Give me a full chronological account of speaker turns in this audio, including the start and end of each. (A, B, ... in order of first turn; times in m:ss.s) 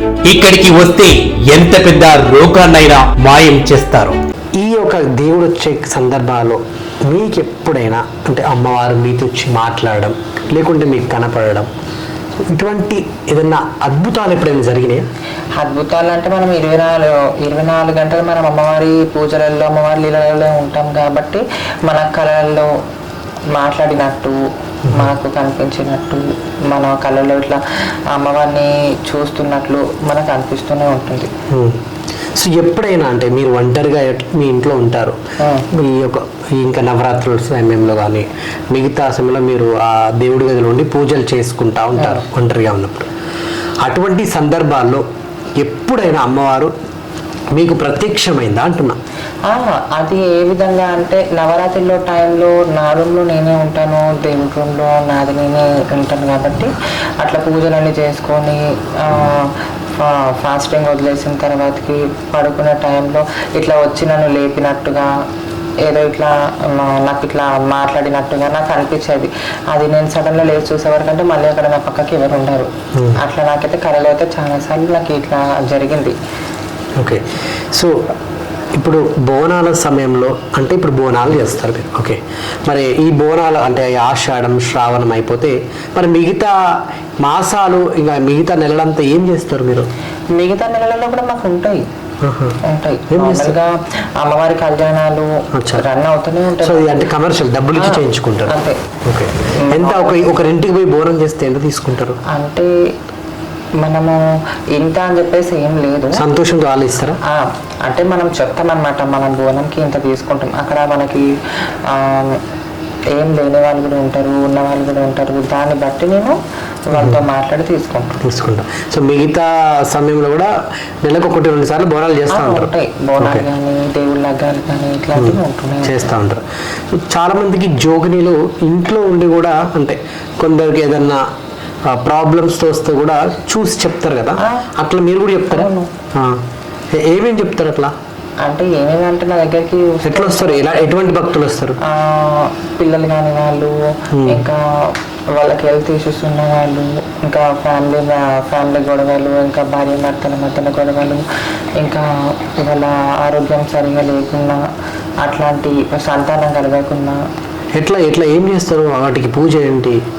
0:00.3-0:04.2 A
0:04.6-0:11.7 B
0:12.5-0:15.0 B
0:15.6-0:22.7 C
0:23.5-0:24.4 C
0:24.9-0:31.3 C
0:31.5-0:31.8 B
0:32.4-0:35.2 B
0:35.4-0:35.7 C
0:35.7-0:43.1 B
0:42.0-0:42.2 C
0:43.8-0:45.0 B
0:45.6-0:46.7 B
0:47.5-0:49.0 B
0:49.4-1:05.1 C
1:05.8-1:16.1 C
1:17.7-1:18.0 B
1:18.8-1:29.9 B
1:30.3-1:31.8 C
1:32.2-1:32.6 B
1:32.6-1:37.1 C
1:33.1-1:33.6 B
1:35.5-1:35.8 B
1:36.6-1:42.2 B
1:37.7-1:38.8 C
1:39.6-1:40.2 C
1:42.3-1:42.7 C
1:43.8-1:44.2 C
1:44.7-1:46.2 C
1:46.1-1:47.2 B
1:47.2-1:51.3 C
1:51.9-1:52.4 C
1:53.1-1:56.4 C
1:56.9-1:58.2 C
1:56.9-1:57.2 B
1:58.2-2:00.5 B
2:01.0-2:03.4 B
2:02.3-2:06.1 C
2:05.2-2:11.2 B
2:11.9-2:16.4 B
2:14.4-2:14.6 C
2:15.5-2:15.9 C
2:16.9-2:17.9 B
2:18.4-2:20.7 C
2:20.0-2:21.8 B
2:21.8-2:31.2 C
2:24.1-2:24.4 B
2:31.8-2:34.6 C
2:35.2-2:37.2 C
2:37.7-2:40.0 B